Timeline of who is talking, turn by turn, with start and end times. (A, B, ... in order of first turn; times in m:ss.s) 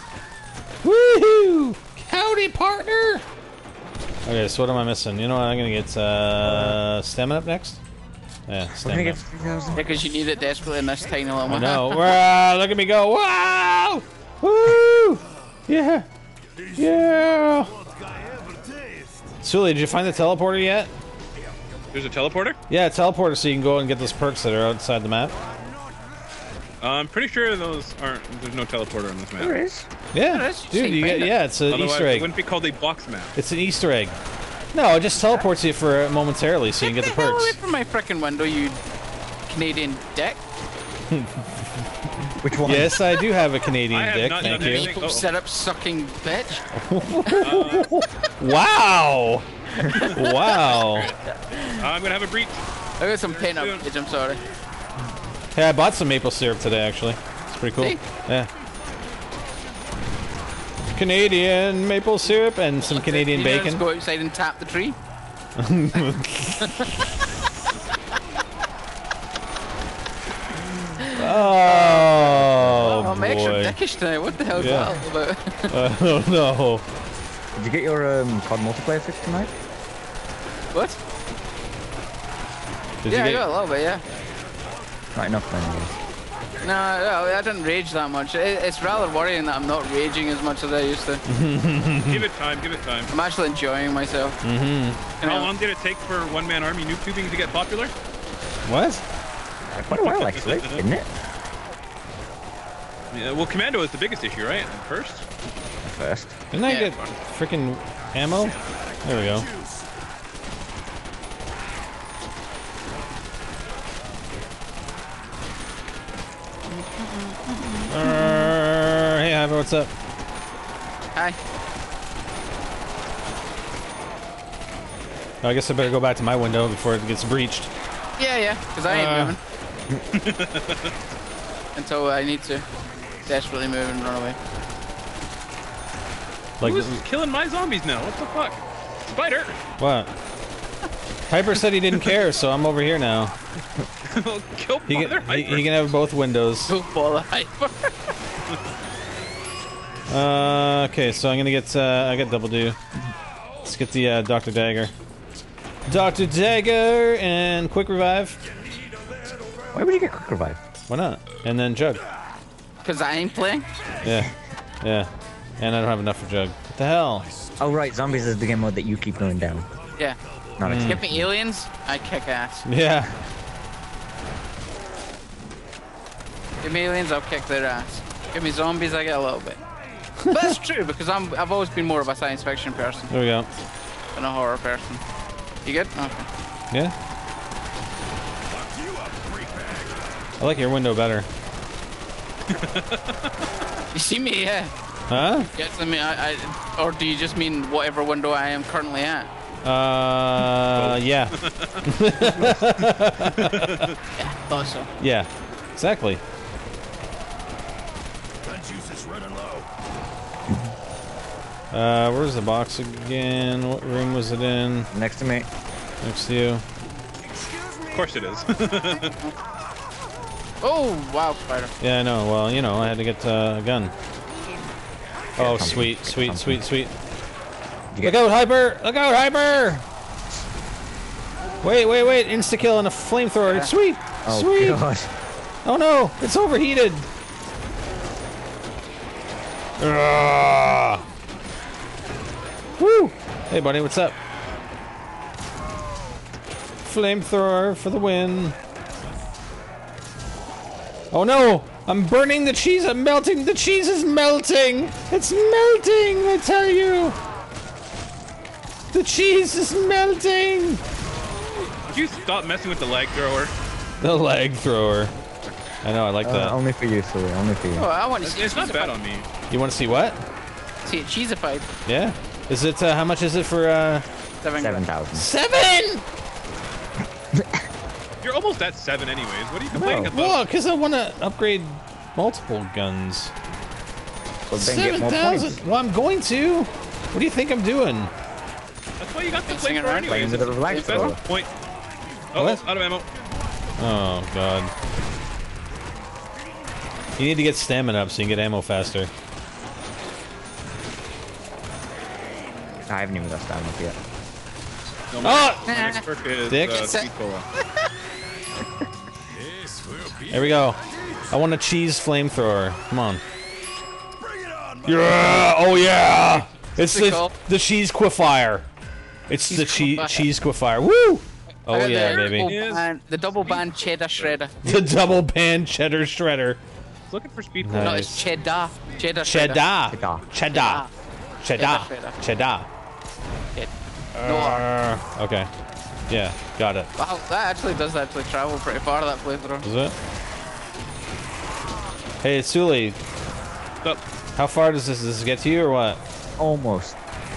0:00.8-0:03.2 A
0:04.2-0:07.8 A
0:06.4-0:06.8 B
0:08.5-0:09.2 A
0:08.8-0:09.9 B
0:09.7-0:11.9 C
0:11.5-0:16.1 A
0:16.7-0:17.7 A
0:19.4-0:20.9 A
0:21.9-0:22.6 D
0:22.7-0:25.3 A
0:26.8-0:29.6 D
0:29.4-0:29.9 B
0:30.1-0:32.3 A
0:30.3-0:31.3 C
0:31.7-0:33.3 D
0:33.3-0:34.2 A
0:34.7-0:37.6 A
0:36.8-0:38.8 C
0:39.5-0:40.4 C
0:41.1-0:41.7 A
0:42.4-0:43.0 B
0:42.6-0:44.9 A
0:43.9-0:45.3 D
0:44.4-0:46.6 C
0:46.7-0:49.4 A
0:47.3-0:47.5 C
0:47.4-0:48.0 D
0:49.8-0:50.8 C
0:50.1-0:51.1 A
0:50.8-0:51.2 D
0:51.7-0:52.6 D
0:53.0-0:54.4 C
0:53.2-0:53.8 D
0:55.5-0:58.5 A
1:00.9-1:03.8 A
1:02.8-1:05.0 C
1:05.6-1:06.7 A
1:06.6-1:06.9 C
1:11.0-1:11.2 C
1:11.1-1:13.8 A
1:12.1-1:13.1 B
1:12.8-1:15.8 C
1:14.5-1:15.0 A
1:14.6-1:14.9 B
1:15.7-1:16.8 A
1:17.6-1:19.5 B
1:20.7-1:21.0 C
1:23.0-1:23.4 A
1:23.0-1:24.0 C
1:25.1-1:26.0 B
1:26.6-1:31.2 C
1:31.3-1:32.2 A
1:32.1-1:33.1 D
1:33.1-1:34.4 C
1:34.4-1:35.0 A
1:35.2-1:35.5 C
1:35.2-1:37.9 D
1:38.6-1:39.0 A
1:39.7-1:41.1 B
1:39.9-1:40.8 D
1:43.1-1:45.2 D
1:45.8-1:46.3 B
1:46.5-1:49.5 A
1:46.7-1:47.0 C
1:56.7-1:58.5 C
1:57.9-1:59.9 A
2:05.4-2:07.7 A
2:08.2-2:09.4 C
2:08.9-2:09.4 A
2:10.2-2:10.9 D
2:11.8-2:12.6 C
2:13.2-2:14.4 C
2:16.6-2:17.0 A
2:16.6-2:19.6 D
2:19.8-2:20.1 A
2:21.3-2:23.3 A
2:24.1-2:25.7 D
2:24.9-2:26.7 A
2:26.7-2:28.1 C
2:30.1-2:32.8 A
2:33.6-2:34.9 A
2:35.9-2:38.4 A
2:39.7-2:40.6 B
2:40.9-2:42.0 A
2:42.8-2:43.7 C
2:44.0-2:47.3 A
2:47.6-2:49.7 B
2:50.6-2:51.3 B
2:50.6-2:51.0 A
2:50.7-2:52.6 C
2:52.6-2:53.2 A
2:56.6-2:59.6 C
3:00.2-3:00.5 A
3:00.3-3:03.1 C
3:03.1-3:03.5 A
3:04.2-3:05.0 C
3:05.6-3:06.3 C
3:10.4-3:11.3 A
3:12.5-3:13.2 D
3:13.9-3:14.7 C
3:15.1-3:15.5 A
3:15.5-3:19.3 C
3:19.6-3:23.9 A
3:20.7-3:24.0 D
3:24.2-3:24.9 C
3:25.0-3:26.2 A
3:31.7-3:34.9 A
3:34.9-3:35.5 B
3:36.0-3:36.6 A
3:37.9-3:39.1 D
3:40.6-3:41.7 C
3:41.8-3:43.9 A
3:45.4-3:46.6 B
3:45.4-3:46.9 A
3:48.0-3:49.8 A
3:51.6-3:54.8 A
3:53.4-3:53.7 C
3:54.2-3:55.1 B
3:55.6-3:57.1 A
3:59.8-4:01.0 A
4:02.8-4:04.2 A
4:06.8-4:08.5 A
4:11.1-4:17.2 A
4:18.9-4:20.8 A
4:21.9-4:23.5 D
4:24.0-4:25.1 A
4:25.8-4:26.6 A
4:26.2-4:27.9 B
4:27.8-4:29.0 C
4:28.2-4:29.3 D
4:29.5-4:30.2 A
4:30.8-4:31.7 C
4:31.9-4:34.0 A
4:34.4-4:34.9 C
4:34.6-4:35.3 B
4:35.2-4:36.0 A
4:37.3-4:37.6 B
4:38.2-4:40.4 D
4:39.7-4:40.1 B
4:39.9-4:43.3 A
4:44.5-4:45.6 B
4:44.5-4:48.1 A
4:49.0-4:51.5 D
4:49.5-4:51.2 C
4:50.1-4:51.2 B
4:52.3-4:53.1 D
4:52.4-4:52.6 A
4:53.8-4:54.7 A
4:57.2-4:59.1 A
5:02.9-5:04.0 B
5:05.1-5:07.5 D
5:05.2-5:05.7 A
5:05.7-5:06.0 C
5:06.5-5:06.9 A
5:06.7-5:07.1 C
5:10.3-5:10.8 A
5:11.3-5:13.2 A
5:14.8-5:18.7 A
5:16.8-5:17.3 C
5:19.3-5:22.5 A
5:19.5-5:20.3 C
5:21.7-5:24.6 C
5:22.2-5:23.6 D
5:24.6-5:26.6 A
5:27.1-5:28.0 D
5:27.6-5:28.3 A
5:27.8-5:29.6 C
5:29.2-5:30.8 A
5:29.9-5:30.3 B
5:30.5-5:30.9 C
5:31.4-5:32.7 A
5:31.6-5:32.2 C
5:33.5-5:34.7 C
5:34.2-5:35.5 A
5:36.1-5:36.9 A
5:37.0-5:39.7 C
5:39.6-5:40.0 A
5:42.2-5:43.0 A
5:44.4-5:46.0 A
5:46.4-5:47.0 B